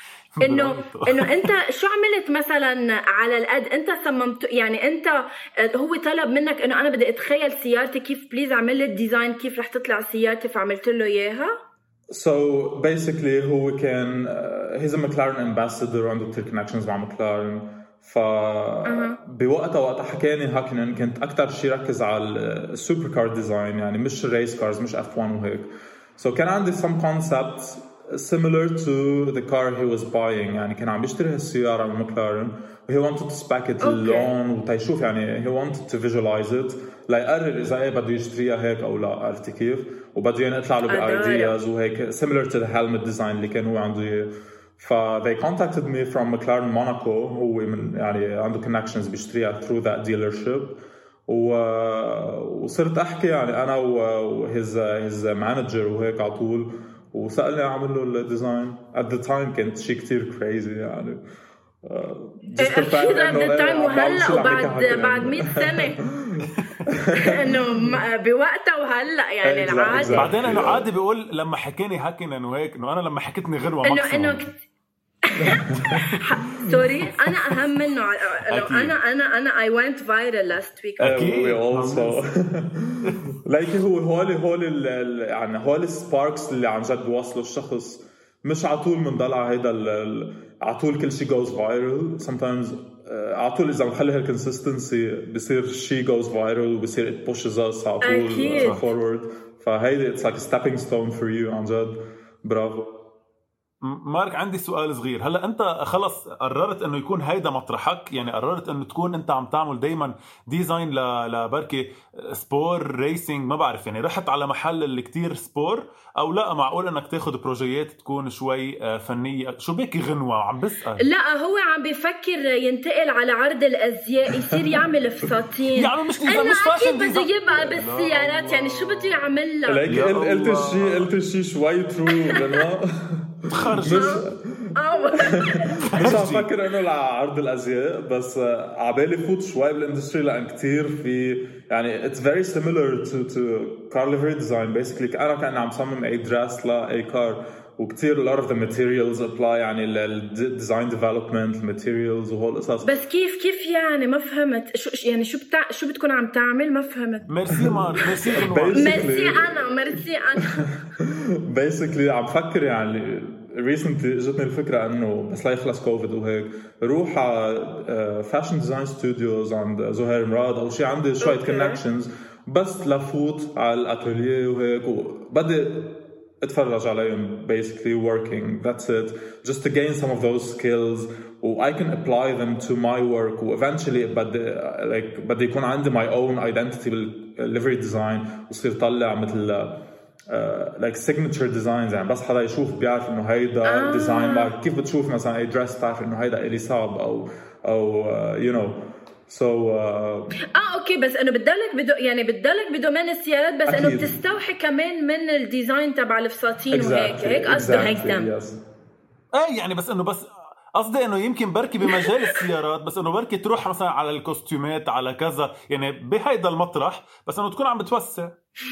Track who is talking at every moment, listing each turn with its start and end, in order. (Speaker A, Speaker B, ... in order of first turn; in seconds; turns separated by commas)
Speaker A: 0.3-1.5, Speaker B: 0.4-11.5, Speaker C: 12.1-61.2, Speaker B: 18.9-19.2, Speaker B: 33.8-34.3, Speaker B: 40.9-41.5, Speaker C: 61.8-68.0, Speaker B: 62.6-66.0, Speaker B: 67.1-70.3, Speaker C: 69.4-70.9, Speaker A: 70.1-74.5, Speaker B: 73.8-74.5, Speaker B: 75.2-81.2, Speaker C: 75.4-76.8, Speaker A: 78.5-79.0, Speaker A: 81.0-82.2, Speaker C: 81.0-102.9, Speaker B: 98.0-98.8, Speaker A: 103.8-121.0, Speaker B: 121.0-129.8, Speaker A: 125.7-129.2, Speaker C: 129.7-152.9, Speaker A: 129.9-131.1, Speaker A: 133.5-134.2, Speaker B: 133.9-136.1, Speaker A: 136.0-136.5, Speaker B: 152.8-157.3, Speaker A: 157.3-159.1, Speaker C: 157.5-159.6, Speaker B: 158.2-160.7, Speaker C: 160.4-200.3, Speaker B: 171.2-171.8, Speaker B: 193.6-194.5, Speaker B: 200.5-208.3, Speaker C: 203.7-204.2, Speaker C: 206.7-208.6, Speaker A: 209.3-218.3, Speaker B: 211.9-212.4